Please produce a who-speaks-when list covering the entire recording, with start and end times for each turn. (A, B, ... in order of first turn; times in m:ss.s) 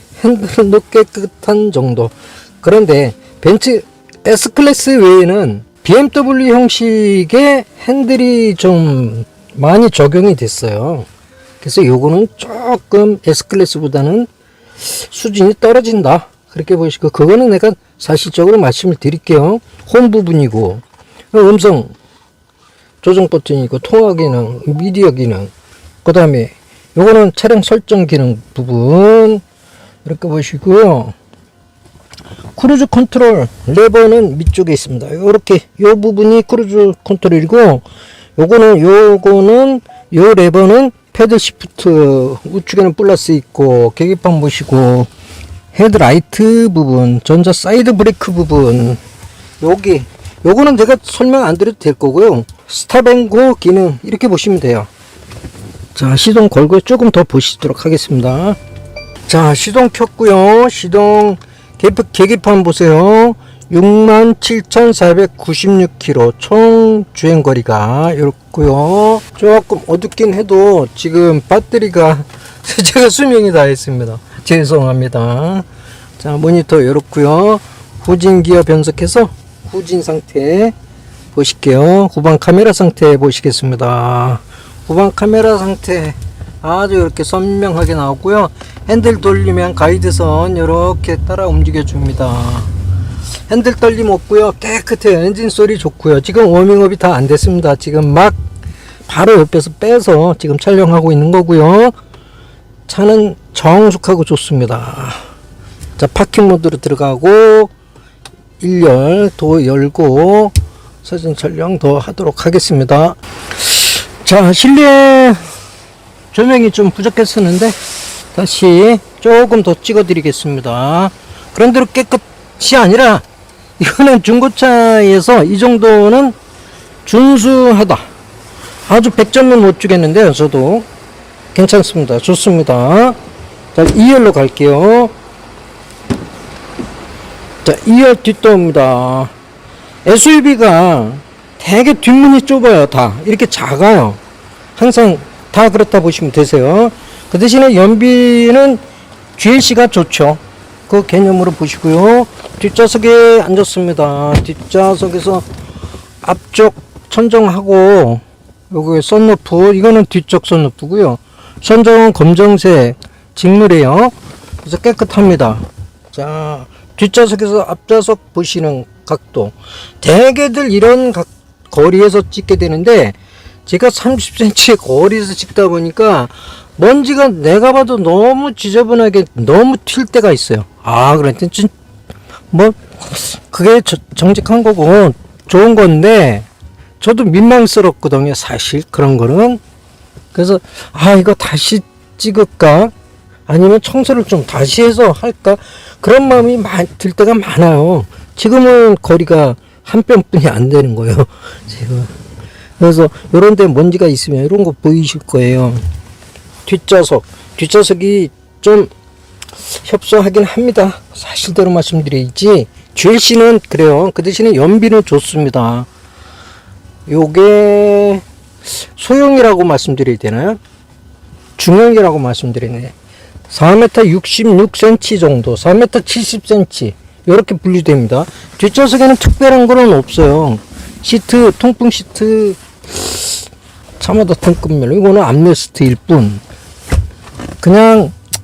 0:00.2-0:11.1 A
0:11.6-0:14.3 A
0:14.8-0:21.9 A
0:23.0-0:25.5 A
0:26.0-0:29.4 A
0:30.0-0:31.2 A
0:32.6-0:37.8 A
0:38.4-0:45.1 A
0:45.7-0:49.0 A
0:49.6-0:54.9 A
0:56.0-0:58.6 A
0:59.3-1:15.7 A
1:16.2-1:20.7 A
1:21.3-1:32.7 A
1:33.5-1:38.4 A
1:39.1-1:41.9 A
1:42.9-1:45.2 A
1:46.0-1:47.7 A
1:48.6-1:55.4 A
1:56.3-1:57.8 A
1:58.3-2:03.2 A
2:03.8-2:06.4 A
2:07.0-2:08.0 A
2:08.9-2:10.9 A
2:11.5-2:13.2 A
2:13.7-2:15.1 A
2:17.6-2:19.3 A
2:20.0-2:24.2 A
2:24.8-2:28.8 A
2:29.4-2:35.5 A
2:36.2-2:53.2 A
2:53.7-3:01.7 A
3:02.5-3:06.5 A
3:07.0-3:09.6 A
3:10.3-3:12.9 A
3:13.5-3:22.1 A
3:22.8-3:25.8 A
3:26.6-3:28.9 A
3:29.8-3:35.9 A
3:37.1-3:38.2 A
3:39.0-3:40.6 A
3:41.6-3:42.9 A
3:43.5-3:53.4 A
3:54.0-3:56.4 A
3:57.6-3:58.1 A